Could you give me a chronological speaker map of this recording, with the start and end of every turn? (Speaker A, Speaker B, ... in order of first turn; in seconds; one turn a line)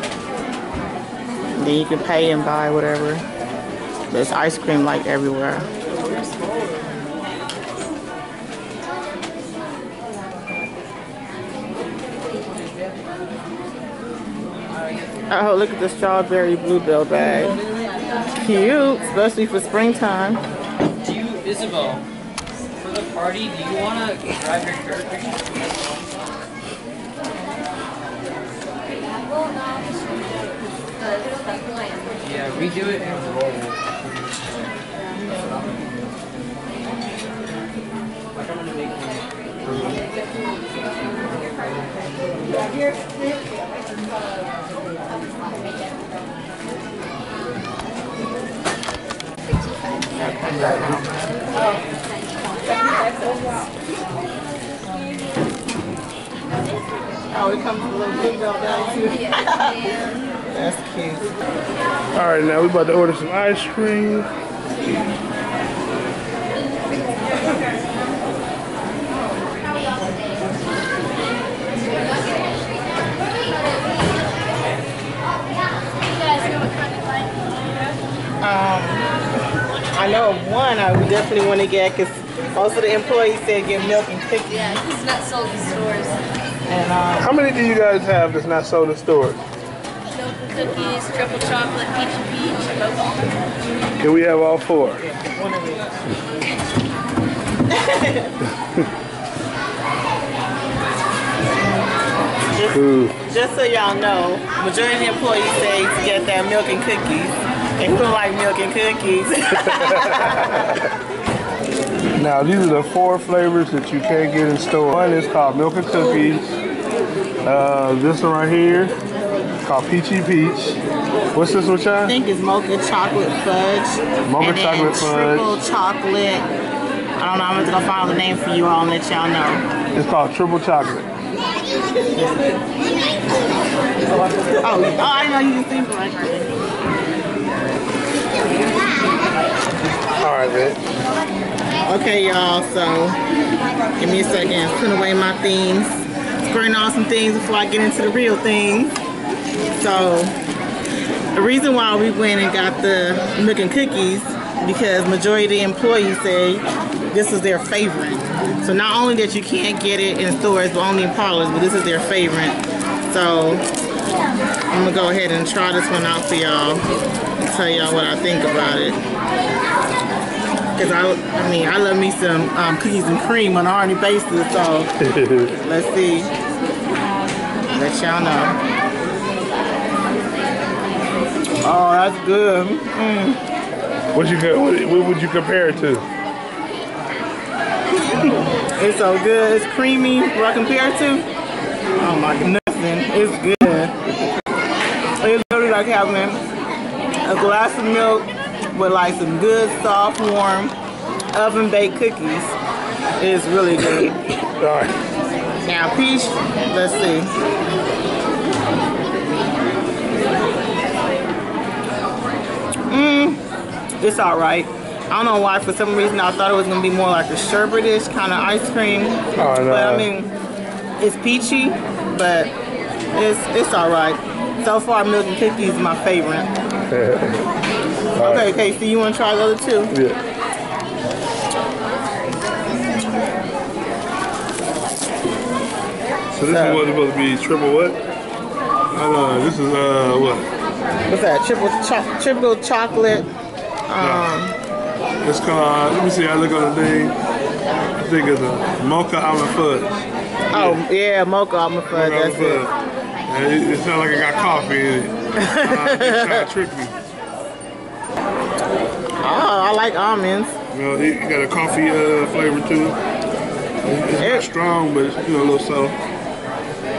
Speaker A: 1.6-3.2
Speaker A: 4.1-5.7
Speaker A: 15.3-17.6
Speaker A: 18.4-20.4
Speaker B: 21.0-22.0
Speaker B: 22.8-26.1
Speaker B: 32.2-33.7
Speaker A: 50.2-51.6
Speaker A: 57.3-59.8
Speaker A: 60.5-61.3
Speaker C: 62.1-64.3
Speaker A: 78.4-79.1
Speaker A: 79.9-84.8
Speaker D: 84.9-86.1
Speaker B: 85.2-86.0
Speaker A: 86.7-87.3
Speaker C: 87.2-89.4
Speaker D: 90.6-92.8
Speaker C: 94.0-95.0
Speaker A: 95.0-95.8
Speaker A: 97.7-98.3
Speaker A: 102.5-110.8
Speaker C: 102.7-103.1
Speaker C: 109.7-110.6
Speaker C: 112.2-116.5
Speaker C: 117.4-118.9
Speaker C: 119.6-120.8
Speaker C: 121.3-122.1
Speaker A: 122.0-126.5
Speaker C: 124.2-125.5
Speaker A: 127.2-129.6
Speaker C: 129.9-131.1
Speaker A: 132.1-132.5
Speaker A: 134.1-136.5
Speaker C: 140.2-140.8
Speaker A: 141.8-143.2
Speaker A: 144.0-148.9
Speaker A: 149.7-150.3
Speaker A: 151.3-163.6
Speaker A: 164.7-166.8
Speaker A: 167.4-169.0
Speaker A: 170.8-174.9
Speaker C: 175.0-175.6
Speaker A: 175.6-176.3
Speaker A: 177.7-178.6
Speaker A: 181.6-183.4
Speaker C: 184.1-186.1
Speaker A: 188.1-191.3
Speaker A: 192.0-194.0
Speaker A: 195.2-196.4
Speaker A: 197.2-200.7
Speaker A: 201.3-202.5
Speaker A: 203.2-204.2
Speaker C: 204.4-204.9
Speaker A: 205.6-207.3
Speaker A: 212.9-213.4
Speaker A: 214.0-220.3
Speaker C: 219.3-220.1
Speaker A: 221.0-222.5
Speaker A: 223.1-226.5
Speaker C: 226.9-227.4
Speaker C: 228.1-228.5
Speaker A: 228.2-229.9
Speaker C: 229.9-230.2
Speaker C: 236.3-238.0
Speaker A: 236.4-236.8
Speaker C: 238.9-240.5
Speaker A: 241.1-243.3
Speaker A: 243.9-244.6
Speaker C: 244.0-244.3
Speaker C: 245.2-247.2
Speaker C: 248.0-250.0
Speaker A: 250.5-252.6
Speaker C: 250.5-250.8
Speaker C: 251.9-252.7
Speaker C: 253.3-256.9
Speaker A: 255.4-256.5
Speaker A: 259.2-260.5
Speaker C: 260.7-263.0
Speaker C: 263.8-266.0
Speaker A: 264.2-264.5